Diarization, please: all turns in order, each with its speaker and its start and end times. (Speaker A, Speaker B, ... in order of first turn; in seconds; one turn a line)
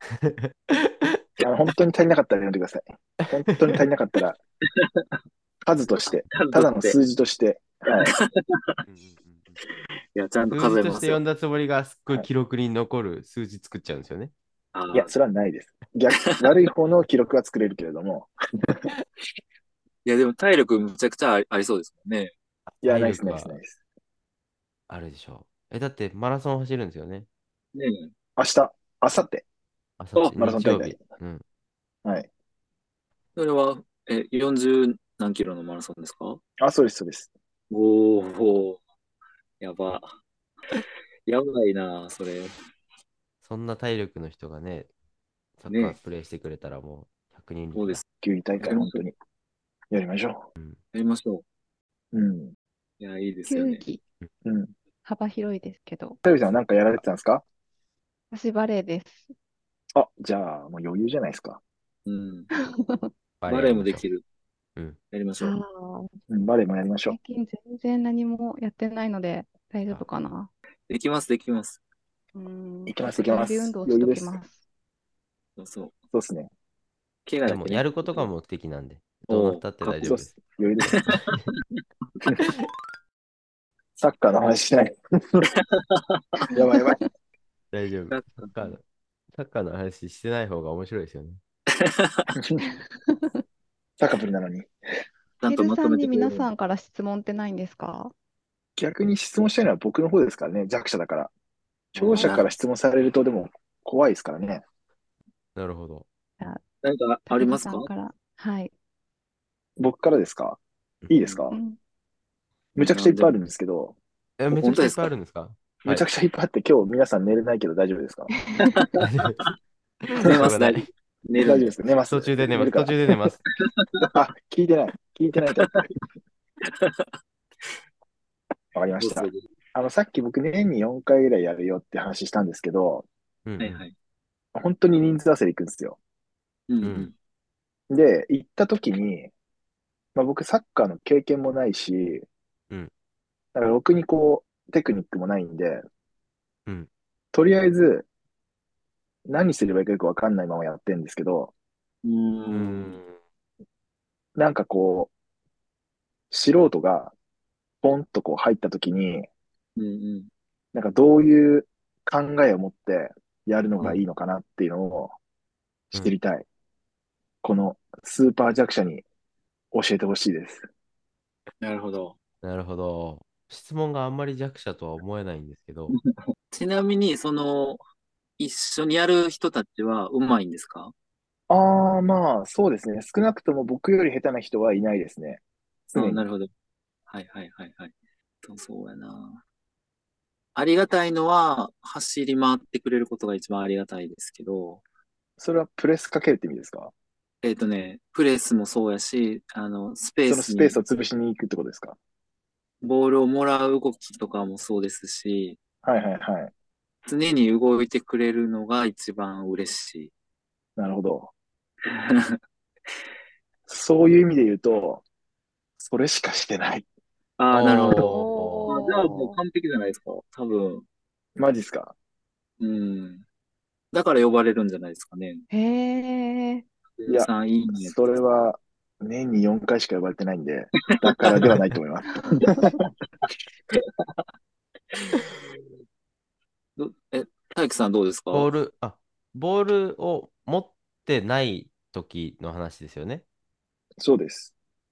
Speaker A: 0.1-1.4
Speaker B: 1.4-4.4
Speaker A: 3.5-3.8
Speaker C: 4.6-5.2
Speaker B: 5.6-8.1
Speaker C: 6.0-7.0
Speaker C: 7.9-8.8
Speaker A: 8.8-9.6
Speaker C: 10.1-11.2
Speaker A: 10.5-14.3
Speaker C: 14.7-15.1
Speaker B: 14.9-18.9
Speaker C: 20.0-22.3
Speaker A: 22.7-23.6
Speaker B: 22.8-23.8
Speaker A: 24.9-27.3
Speaker C: 27.7-28.1
Speaker B: 28.4-29.4
Speaker A: 30.0-31.4
Speaker B: 30.4-31.0
Speaker C: 33.4-36.4
Speaker B: 36.6-37.3
Speaker C: 37.7-38.8
Speaker C: 39.6-40.1
Speaker C: 40.8-42.5
Speaker A: 43.4-44.9
Speaker A: 45.6-48.0
Speaker C: 45.7-46.0
Speaker C: 47.7-48.0
Speaker B: 48.2-49.1
Speaker C: 48.6-49.0
Speaker B: 49.9-50.5
Speaker C: 50.9-51.4
Speaker B: 52.1-52.5
Speaker C: 53.0-53.8
Speaker D: 53.5-54.0
Speaker B: 54.4-54.7
Speaker D: 55.0-56.2
Speaker B: 56.2-57.4
Speaker D: 58.3-59.3
Speaker B: 59.9-61.6
Speaker C: 62.0-62.5
Speaker D: 62.6-63.1
Speaker A: 63.4-64.0
Speaker C: 63.5-64.2
Speaker C: 65.1-65.5
Speaker D: 65.4-66.1
Speaker B: 66.3-67.2
Speaker D: 67.1-70.5
Speaker C: 70.9-71.8
Speaker D: 72.3-74.6
Speaker B: 72.9-74.4
Speaker C: 75.6-75.9
Speaker B: 76.1-76.5
Speaker C: 77.2-78.3
Speaker A: 77.5-80.3
Speaker C: 79.3-80.2
Speaker B: 80.0-81.0
Speaker C: 80.9-81.8
Speaker A: 80.9-81.4
Speaker B: 84.0-85.5
Speaker C: 85.7-86.4
Speaker B: 86.5-87.0
Speaker A: 87.7-88.8
Speaker C: 88.1-88.5
Speaker A: 89.3-91.4
Speaker C: 91.7-92.3
Speaker B: 94.0-94.7
Speaker C: 95.4-96.5
Speaker D: 95.5-98.1
Speaker B: 98.8-101.3
Speaker B: 101.9-104.6
Speaker C: 102.0-102.5
Speaker A: 105.5-106.0
Speaker C: 106.8-107.9
Speaker D: 107.3-108.7
Speaker B: 109.8-111.6
Speaker D: 111.5-111.8
Speaker B: 112.8-114.0
Speaker C: 112.8-113.3
Speaker A: 114.4-116.0
Speaker C: 114.5-115.1
Speaker B: 115.8-118.3
Speaker D: 118.4-118.7
Speaker C: 118.6-119.0
Speaker A: 119.0-119.4
Speaker A: 120.0-120.9
Speaker C: 120.2-121.7
Speaker B: 121.3-123.0
Speaker A: 122.1-123.4
Speaker C: 123.6-124.0
Speaker B: 124.0-125.9
Speaker C: 126.6-127.1
Speaker B: 128.7-133.1
Speaker C: 129.0-129.4
Speaker A: 133.4-133.8
Speaker C: 133.6-133.9
Speaker B: 134.5-136.0
Speaker C: 136.7-137.1
Speaker A: 136.8-137.1
Speaker B: 137.9-139.3
Speaker B: 140.1-142.3
Speaker B: 143.5-145.8
Speaker B: 147.3-148.1
Speaker B: 149.3-151.5
Speaker C: 152.0-152.9
Speaker A: 152.5-153.2
Speaker B: 154.3-155.1
Speaker B: 156.3-157.1
Speaker B: 157.8-159.3
Speaker C: 159.8-160.3
Speaker B: 160.7-165.1
Speaker B: 165.9-166.4
Speaker B: 167.4-169.0
Speaker B: 169.7-170.7
Speaker C: 171.6-172.2
Speaker A: 172.4-175.9
Speaker C: 176.5-177.8
Speaker C: 178.4-180.9
Speaker B: 181.5-185.4
Speaker C: 185.9-186.5
Speaker B: 185.9-186.2
Speaker C: 187.1-189.4
Speaker C: 190.5-194.8
Speaker B: 195.4-196.9
Speaker C: 197.4-200.8
Speaker B: 200.3-202.0
Speaker C: 202.8-205.6
Speaker B: 205.8-206.5
Speaker C: 207.0-210.1
Speaker B: 210.8-211.3
Speaker C: 211.9-212.4
Speaker B: 213.7-215.0
Speaker B: 215.8-216.8
Speaker C: 217.4-220.8
Speaker A: 217.5-218.9
Speaker D: 217.7-219.4
Speaker B: 221.3-221.9
Speaker C: 222.6-223.2
Speaker C: 223.9-225.4
Speaker D: 225.5-226.6
Speaker C: 227.0-228.1
Speaker B: 227.1-232.9
Speaker C: 230.9-231.6
Speaker D: 232.2-232.4
Speaker C: 233.7-234.2
Speaker C: 234.9-235.6
Speaker C: 236.8-238.5
Speaker A: 238.3-243.2
Speaker B: 244.0-244.5